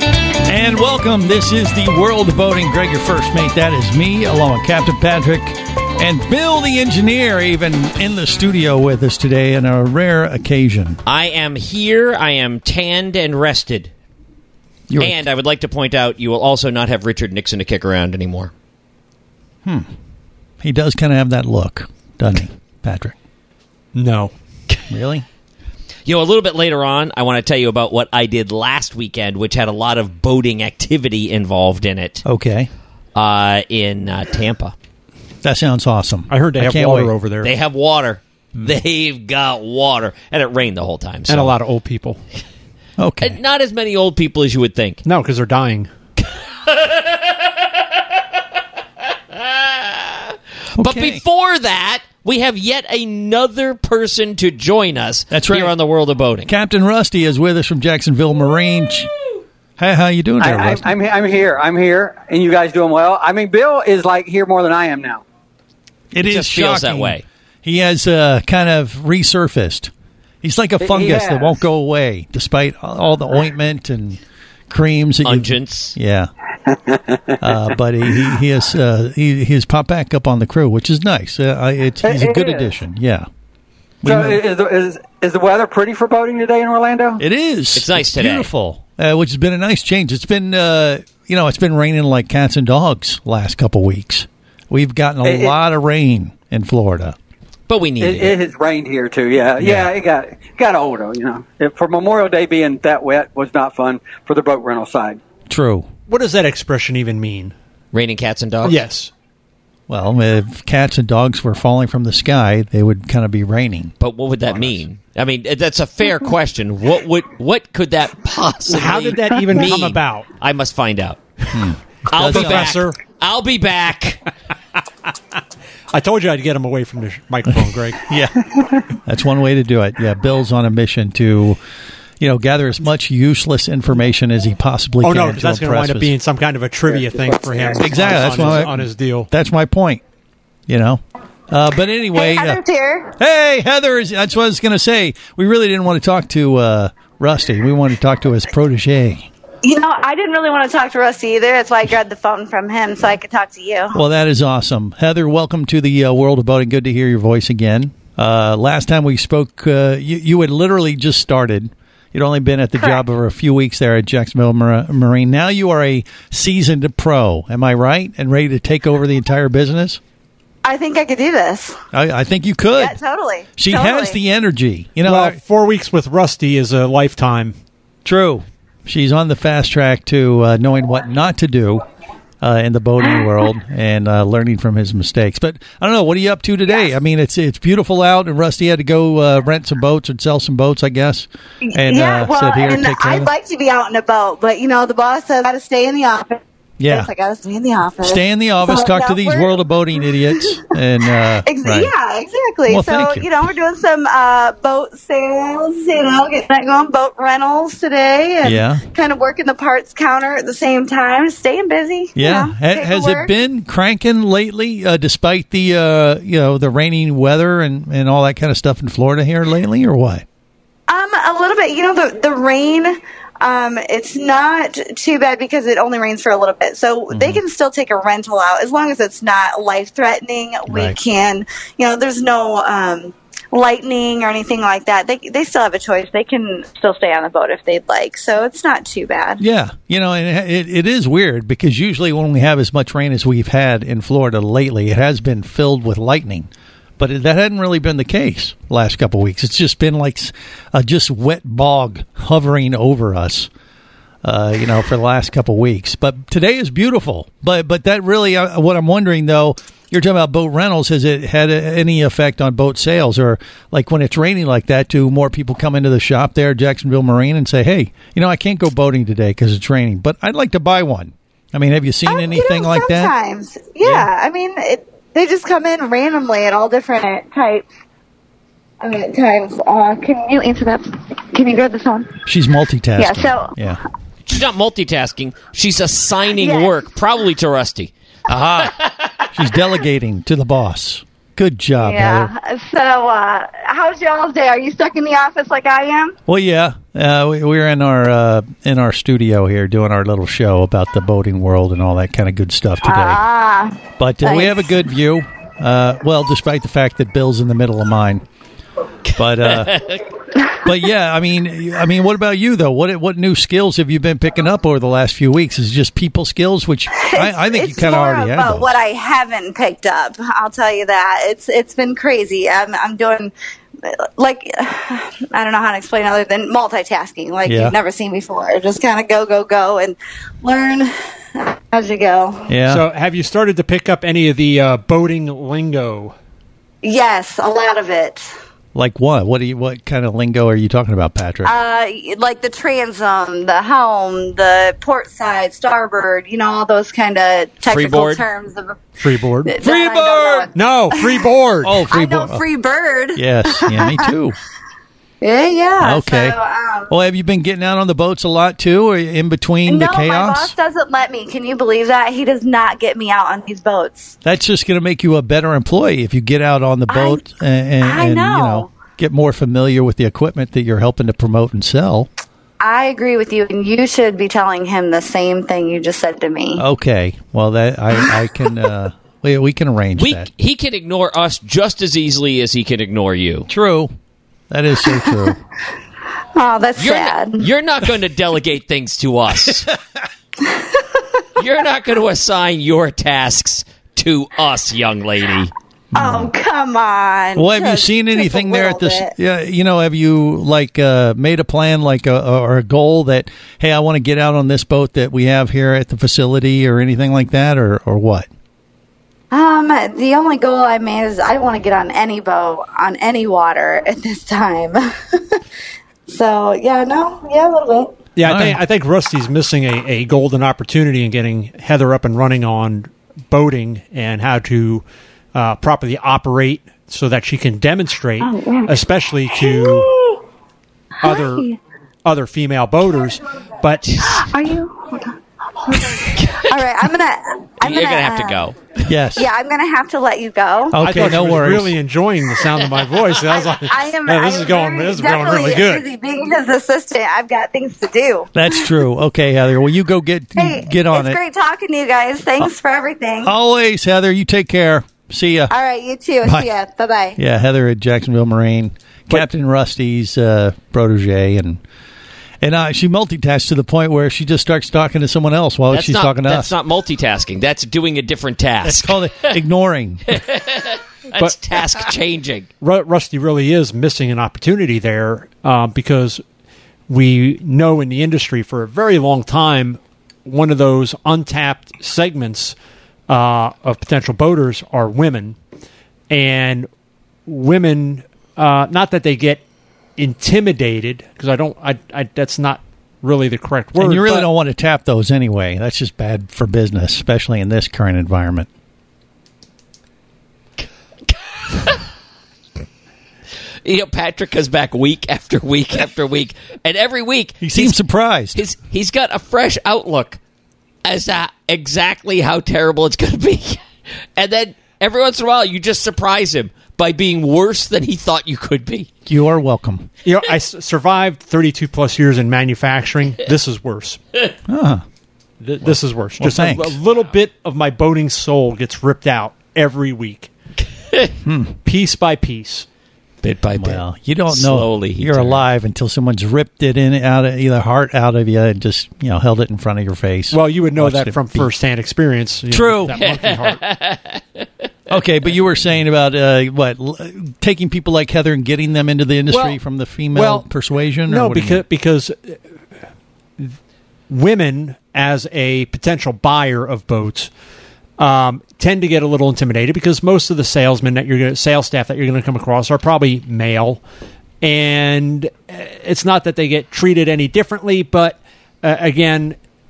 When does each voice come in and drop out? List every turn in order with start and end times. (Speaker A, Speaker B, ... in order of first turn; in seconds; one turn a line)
Speaker A: 0.5-11.0
Speaker B: 11.1-13.9
Speaker A: 14.9-15.2
Speaker B: 15.0-18.5
Speaker A: 20.6-23.1
Speaker C: 23.9-24.3
Speaker A: 24.9-25.2
Speaker B: 26.1-32.2
Speaker A: 32.2-32.7
Speaker B: 33.1-34.7
Speaker A: 35.4-37.1
Speaker C: 36.3-37.5
Speaker B: 37.4-41.5
Speaker C: 41.3-42.2
Speaker A: 43.0-43.4
Speaker B: 43.2-45.0
Speaker C: 45.0-45.9
Speaker B: 46.5-47.3
Speaker B: 49.3-56.5
Speaker A: 50.8-51.2
Speaker A: 55.3-55.7
Speaker A: 56.5-59.1
Speaker A: 59.8-60.9
Speaker D: 60.4-65.2
Speaker A: 66.1-69.9
Speaker B: 66.3-67.2
Speaker A: 70.4-74.2
Speaker D: 70.8-71.6
Speaker A: 74.7-76.3
Speaker B: 75.2-76.0
Speaker D: 76.7-77.4
Speaker A: 77.4-83.2
Speaker D: 82.0-82.7
Speaker A: 84.0-84.4
Speaker D: 84.0-87.2
Speaker A: 87.2-97.2
Speaker B: 87.7-88.5
Speaker D: 95.2-95.5
Speaker B: 97.7-98.3
Speaker D: 98.0-105.2
Speaker A: 99.6-99.9
Speaker A: 105.5-105.9
Speaker C: 106.1-107.5
Speaker B: 107.9-108.8
Speaker C: 108.6-109.1
Speaker A: 109.9-113.9
Speaker B: 114.0-121.2
Speaker C: 118.7-120.3
Speaker A: 121.5-122.8
Speaker B: 122.1-124.2
Speaker C: 122.1-123.0
Speaker C: 125.9-128.0
Speaker A: 127.5-128.4
Speaker A: 129.0-131.6
Speaker A: 132.2-136.1
Speaker C: 135.0-139.3
Speaker A: 137.8-140.0
Speaker A: 140.7-142.6
Speaker E: 142.1-143.1
Speaker A: 143.2-149.3
Speaker E: 149.6-154.0
Speaker A: 153.9-170.0
Speaker E: 170.6-171.8
Speaker A: 171.9-173.0
Speaker E: 172.8-174.2
Speaker A: 173.6-175.4
Speaker C: 175.0-177.5
Speaker A: 178.0-181.8
Speaker A: 182.4-193.3
Speaker E: 191.6-199.6
Speaker A: 196.8-197.1
Speaker A: 198.0-201.9
Speaker E: 201.4-213.3
Speaker A: 202.7-203.3
Speaker A: 208.4-208.8
Speaker A: 212.2-220.2
Speaker E: 220.9-239.4
Speaker A: 227.1-227.4
Speaker A: 230.7-231.0
Speaker A: 239.4-253.5
Speaker A: 254.2-273.1
Speaker E: 272.1-277.7
Speaker A: 273.8-274.1
Speaker E: 278.8-282.2
Speaker A: 282.2-283.8
Speaker E: 283.0-283.5
Speaker B: 284.2-288.8
Speaker E: 286.4-286.8
Speaker A: 288.3-288.7
Speaker A: 289.3-292.3
Speaker E: 291.8-296.1
Speaker A: 296.3-303.2
Speaker E: 302.8-304.7
Speaker A: 304.0-308.2
Speaker B: 309.1-310.0
Speaker A: 309.2-309.8
Speaker A: 310.6-318.7
Speaker E: 316.9-332.5
Speaker A: 327.4-327.7
Speaker A: 332.5-332.8
Speaker C: 332.7-336.1
Speaker E: 336.8-338.3
Speaker A: 338.7-341.5
Speaker E: 341.4-348.8
Speaker B: 347.7-348.2
Speaker C: 349.0-349.5
Speaker E: 349.4-351.2
Speaker A: 349.6-350.5
Speaker C: 350.5-351.8
Speaker A: 351.6-352.4
Speaker E: 351.9-354.0
Speaker A: 353.1-354.4
Speaker E: 355.2-356.9
Speaker A: 355.8-356.4
Speaker A: 356.9-360.5
Speaker E: 359.7-364.1
Speaker A: 364.2-372.1
Speaker E: 366.9-367.2
Speaker E: 367.8-368.7
Speaker E: 372.6-376.6
Speaker A: 376.6-380.3
Speaker B: 380.0-383.5
Speaker A: 383.5-383.9
Speaker A: 384.5-385.4
Speaker E: 386.3-387.5
Speaker B: 386.8-389.7
Speaker E: 390.4-391.0
Speaker B: 391.4-395.5
Speaker A: 395.9-396.3
Speaker E: 395.9-399.1
Speaker A: 397.4-408.3
Speaker E: 409.3-415.4
Speaker E: 416.1-417.9
Speaker C: 418.1-429.9
Speaker A: 418.2-418.6
Speaker E: 428.2-428.8
Speaker E: 429.3-430.2
Speaker C: 431.0-431.5
Speaker E: 431.0-431.6
Speaker C: 432.0-434.2
Speaker E: 434.0-438.4
Speaker B: 436.2-436.5
Speaker B: 437.6-438.6
Speaker A: 438.9-439.3
Speaker E: 439.1-441.0
Speaker A: 440.7-441.7
Speaker C: 440.8-445.9
Speaker E: 443.3-448.5
Speaker A: 448.3-451.2
Speaker E: 450.4-453.3
Speaker A: 453.2-455.5
Speaker E: 455.5-457.2
Speaker A: 456.2-456.5
Speaker A: 457.2-461.6
Speaker A: 462.4-466.5
Speaker B: 465.7-469.3
Speaker A: 468.6-470.1
Speaker B: 470.1-472.5
Speaker C: 472.6-476.2
Speaker C: 476.9-482.5
Speaker C: 483.1-485.4
Speaker C: 486.1-486.7
Speaker C: 487.3-489.4
Speaker C: 490.0-494.3
Speaker A: 493.8-498.5
Speaker B: 501.5-501.8
Speaker B: 503.6-507.8
Speaker A: 507.4-508.4
Speaker B: 508.3-510.2
Speaker B: 510.8-513.6
Speaker B: 514.1-518.9
Speaker A: 519.0-519.9
Speaker C: 520.0-524.0
Speaker A: 524.5-524.8
Speaker C: 525.4-530.3
Speaker A: 525.6-526.8
Speaker A: 531.2-531.6
Speaker C: 531.6-532.6
Speaker B: 533.2-535.4
Speaker A: 533.6-541.5
Speaker C: 540.3-543.6
Speaker A: 542.5-543.0
Speaker B: 542.9-544.4
Speaker A: 544.9-551.6
Speaker C: 549.3-549.6
Speaker C: 550.1-550.4
Speaker C: 551.1-552.4
Speaker C: 554.1-557.3
Speaker C: 558.0-563.8
Speaker C: 564.4-569.4